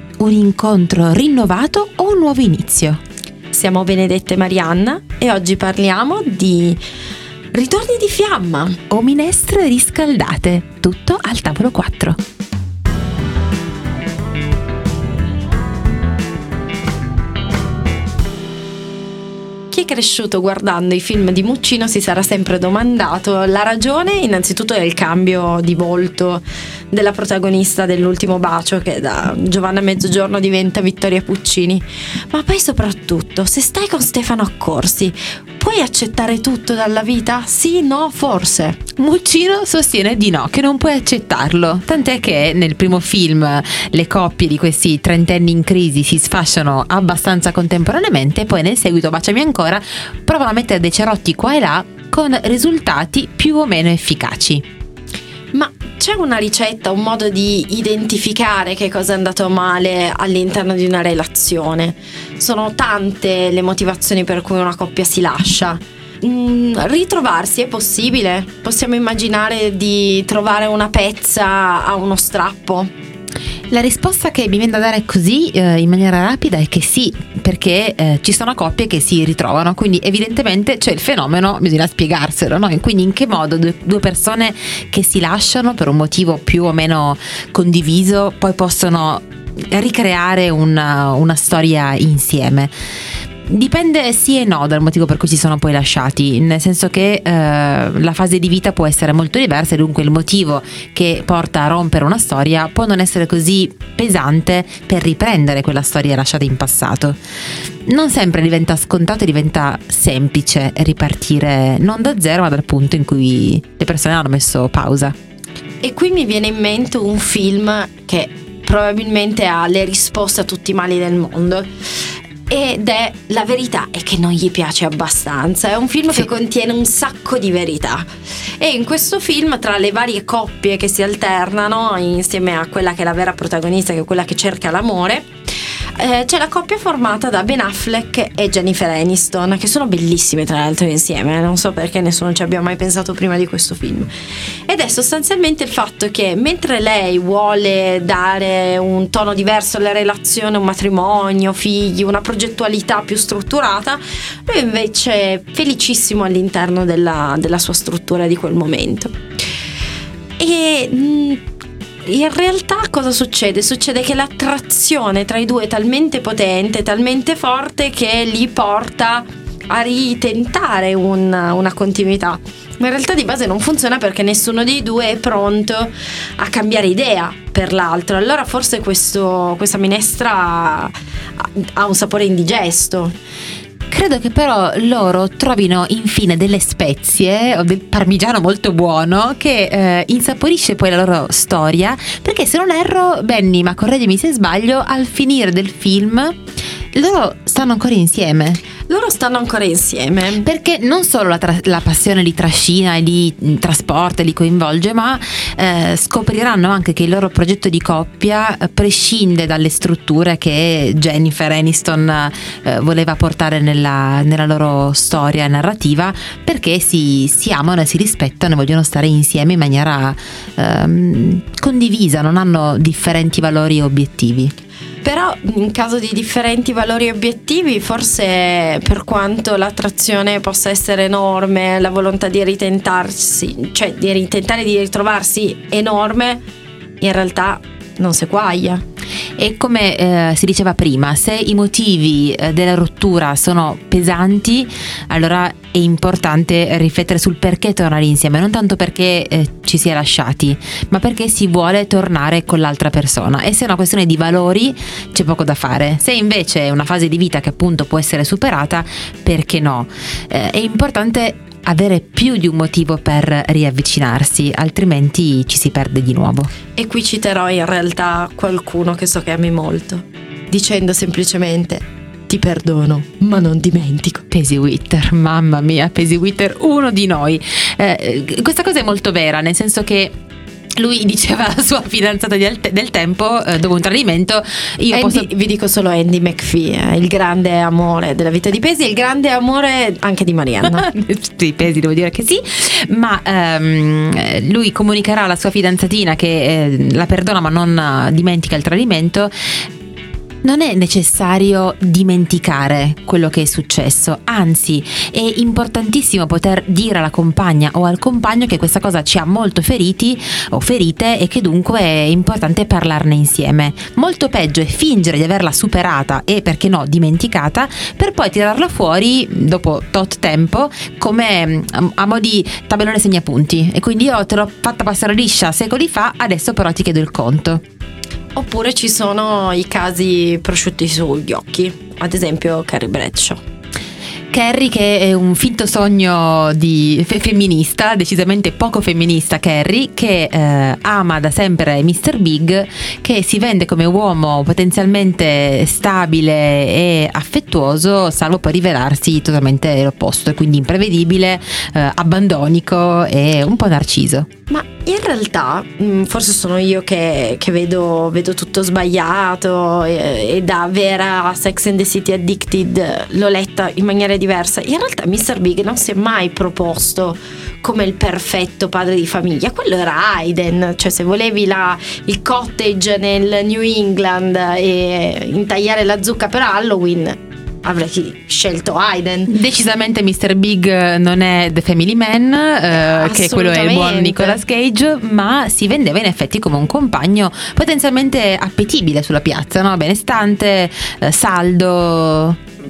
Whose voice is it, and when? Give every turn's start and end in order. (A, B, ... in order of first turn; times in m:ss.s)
0:00.2-0:03.0 A
0:03.5-0:06.8 B
0:07.5-0:08.8 B
0:08.9-0:12.2 A
0:19.7-0:38.8 B
0:39.0-0:54.6 A
0:55.5-1:12.9 B
1:13.7-1:32.7 A
1:33.4-1:47.2 A
1:47.9-1:55.1 A
1:55.8-2:01.7 B
2:02.5-2:08.0 B
2:08.6-2:15.3 B
2:16.0-2:24.1 B
2:24.7-2:39.1 B
2:40.4-2:41.4 B
2:42.0-3:03.1 B
3:03.9-3:16.3 A
3:16.9-3:18.6 A
3:18.9-3:20.5 B
3:20.4-3:44.5 A
3:45.0-3:56.4 B
3:57.0-3:58.8 B
3:59.4-4:26.5 A
4:26.8-4:34.3 B
4:34.3-4:40.1 A
4:40.8-4:45.3 A
4:44.9-4:50.9 B
4:50.8-4:59.3 A
5:00.4-5:27.6 A
5:28.4-5:33.4 B
5:34.3-5:54.3 A
5:54.5-6:19.3 B
6:19.3-6:32.4 A
6:22.7-6:24.4 B